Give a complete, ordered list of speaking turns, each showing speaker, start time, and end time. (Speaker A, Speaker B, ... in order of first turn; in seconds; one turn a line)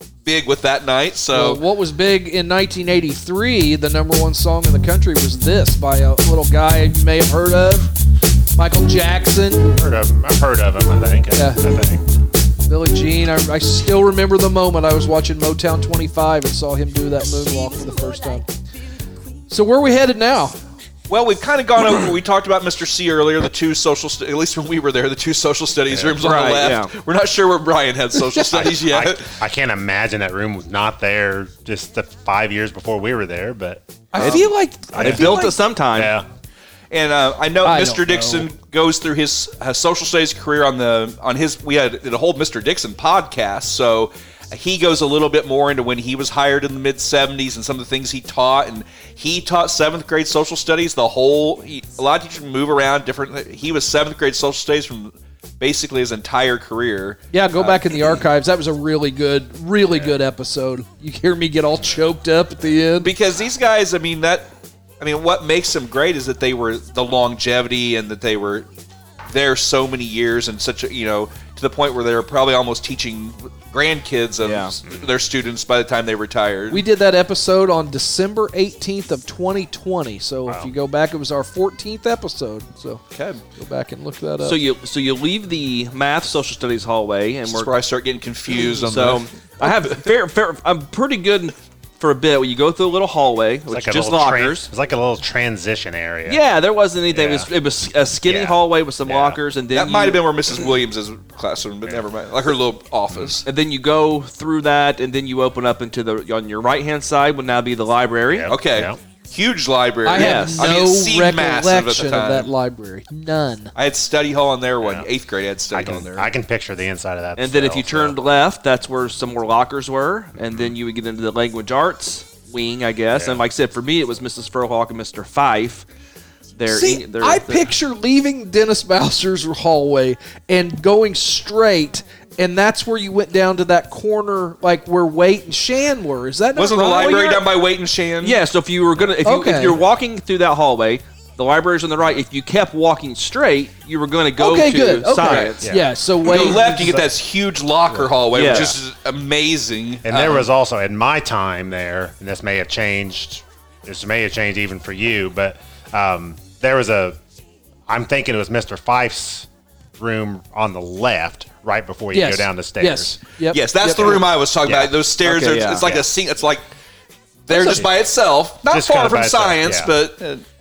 Speaker A: 0.2-1.6
Speaker B: 1.3-7.9
Speaker B: 8.6-9.7
Speaker C: 9.8-12.0
Speaker B: 11.3-11.6
Speaker B: 12.7-18.4
Speaker B: 19.5-20.6
Speaker A: 21.1-29.3
Speaker C: 25.9-26.2
Speaker D: 26.2-26.9
Speaker C: 28.5-36.3
Speaker B: 34.1-35.6
Speaker D: 34.9-36.1
Speaker A: 36.9-58.2
Speaker B: 37.6-38.5
Speaker B: 57.3-63.1
Speaker A: 63.0-68.7
Speaker A: 69.3-76.8
Speaker D: 74.4-74.7
Speaker B: 76.7-83.0
Speaker C: 80.5-80.7
Speaker A: 83.1-83.4
Speaker B: 83.5-84.6
Speaker D: 84.4-87.7
Speaker A: 87.5-90.0
Speaker D: 88.5-94.7
Speaker C: 93.7-96.4
Speaker D: 96.3-100.2
Speaker C: 97.1-97.5
Speaker C: 98.2-99.4
Speaker A: 99.7-103.4
Speaker C: 103.1-103.4
Speaker D: 103.4-108.5
Speaker C: 108.2-109.0
Speaker A: 108.5-112.5
Speaker B: 110.0-113.7
Speaker D: 110.1-110.7
Speaker A: 113.7-116.3
Speaker C: 114.8-115.1
Speaker C: 115.7-118.2
Speaker D: 117.4-125.8
Speaker D: 126.6-127.7
Speaker B: 126.7-137.4
Speaker A: 136.5-138.4
Speaker D: 136.9-137.3
Speaker D: 138.2-145.6
Speaker B: 139.2-139.8
Speaker B: 144.4-147.0
Speaker A: 145.2-145.5
Speaker C: 145.6-145.9
Speaker A: 146.2-150.3
Speaker C: 147.9-148.7
Speaker D: 148.3-148.8
Speaker C: 150.0-157.2
Speaker C: 157.9-163.2
Speaker B: 162.1-164.2
Speaker A: 163.5-166.7
Speaker C: 164.6-164.9
Speaker D: 165.2-166.0
Speaker A: 167.5-170.4
Speaker B: 167.5-167.8
Speaker C: 167.6-167.9
Speaker C: 168.6-169.9